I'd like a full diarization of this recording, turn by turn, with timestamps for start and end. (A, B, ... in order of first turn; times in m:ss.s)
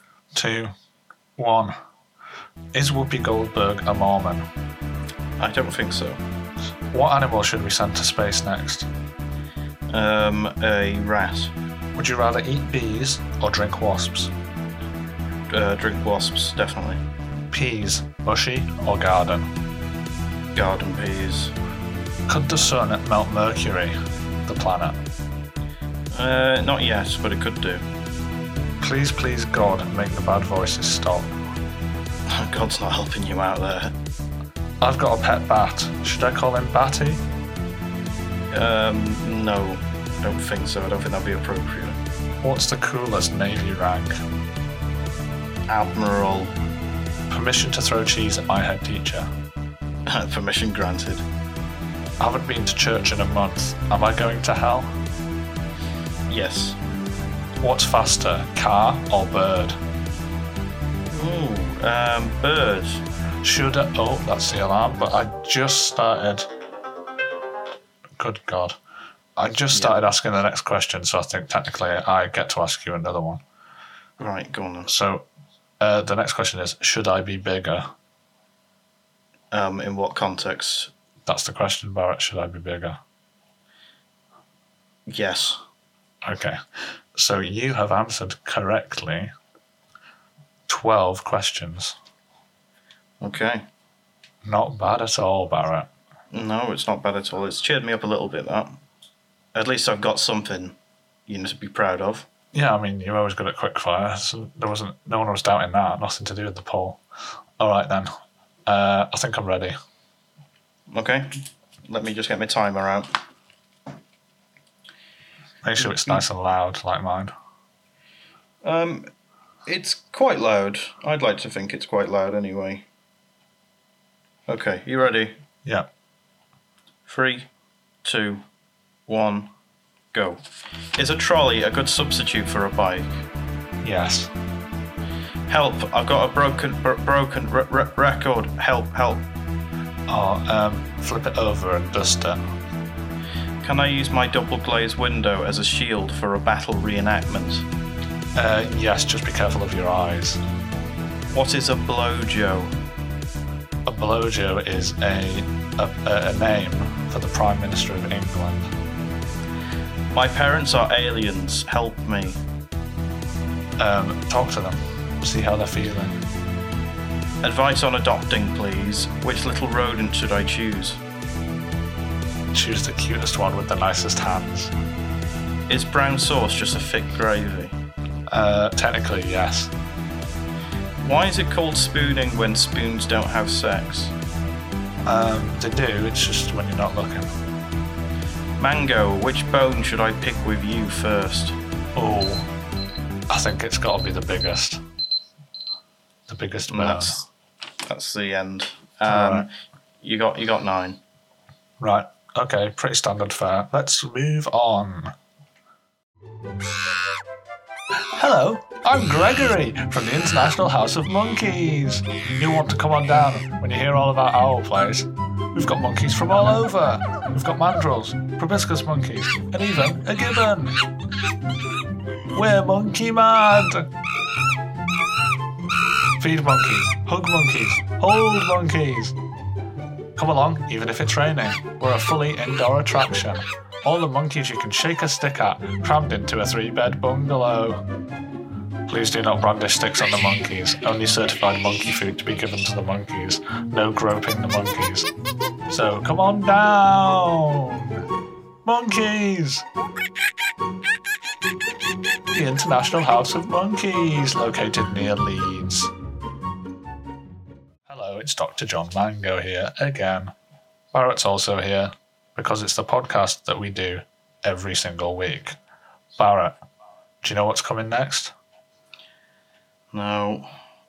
0:00.3-0:00.7 A
0:01.4-0:01.8 A
0:02.7-0:04.4 A
0:05.4-0:06.2 B
0:06.9-0:08.9 A
0:09.9-0:11.5 B
0:12.0-0:14.3 A
0:15.5-0:17.0 B
0:17.5-0:19.5 A
0:20.6-0:21.5 B
0:22.3-0:25.0 A
0:26.1-0:27.9 B
0:28.8-0:31.3 A
0:32.3-0:34.0 B
0:34.8-0:37.2 A
0:38.5-0:42.0 B
0:42.4-0:44.2 A
0:45.7-0:46.5 B
0:47.3-0:49.3 A
0:50.1-0:51.2 B
0:52.2-0:54.9 A
0:56.3-0:56.8 B
0:57.6-0:59.8 A
1:01.1-1:03.0 B
1:03.4-1:06.5 A
1:08.2-1:08.8 A
1:09.4-1:13.4 A
1:09.7-1:10.0 B
1:14.2-1:14.9 B
1:14.9-1:15.3 A
1:15.8-1:17.9 A
1:19.5-1:20.9 B
1:21.3-1:23.0 A
1:25.1-1:25.6 B
1:26.2-1:29.3 A
1:30.7-1:32.0 A
1:33.2-1:33.6 B
1:34.4-1:35.9 A
1:36.3-1:38.8 B
1:39.6-1:40.8 B
1:41.3-1:42.3 B
1:42.5-1:47.0 A
1:47.6-1:49.8 A
1:50.9-1:53.2 B
1:55.6-1:57.3 A
1:55.8-1:56.2 B
1:58.6-1:59.1 B
1:59.7-2:02.9 B
2:04.5-2:05.4 B
2:07.1-2:07.5 B
2:08.0-2:08.4 B
2:09.1-2:09.5 B
2:10.1-2:10.4 B
2:11.0-2:13.2 B
2:13.8-2:14.3 A
2:15.5-2:19.3 B
2:20.1-2:22.5 A
2:23.6-2:27.7 B
2:28.4-2:30.4 A
2:31.3-2:32.7 B
2:33.8-2:38.7 A
2:40.1-2:42.4 B
2:43.8-2:46.2 A
2:47.4-2:51.0 B
2:52.5-2:54.7 A
2:55.7-2:57.8 B
2:58.3-2:59.7 A
3:01.0-3:04.1 B
3:05.0-3:07.3 A
3:08.6-3:11.6 B
3:12.0-3:12.5 A
3:13.3-3:14.8 A
3:16.3-3:17.2 A
3:16.7-3:17.3 B
3:17.9-3:21.0 B
3:19.1-3:19.5 A
3:21.8-3:25.2 A
3:28.1-3:40.8 A
3:42.3-3:43.9 A
3:46.2-3:49.2 A
3:50.2-3:57.8 A
3:58.9-4:05.1 A
4:05.7-4:08.0 A
4:08.6-4:09.7 A
4:12.3-4:15.9 A
4:17.9-4:20.3 A
4:20.9-4:25.6 A
4:26.2-4:26.6 A
4:27.2-4:28.3 A
4:29.9-4:30.5 B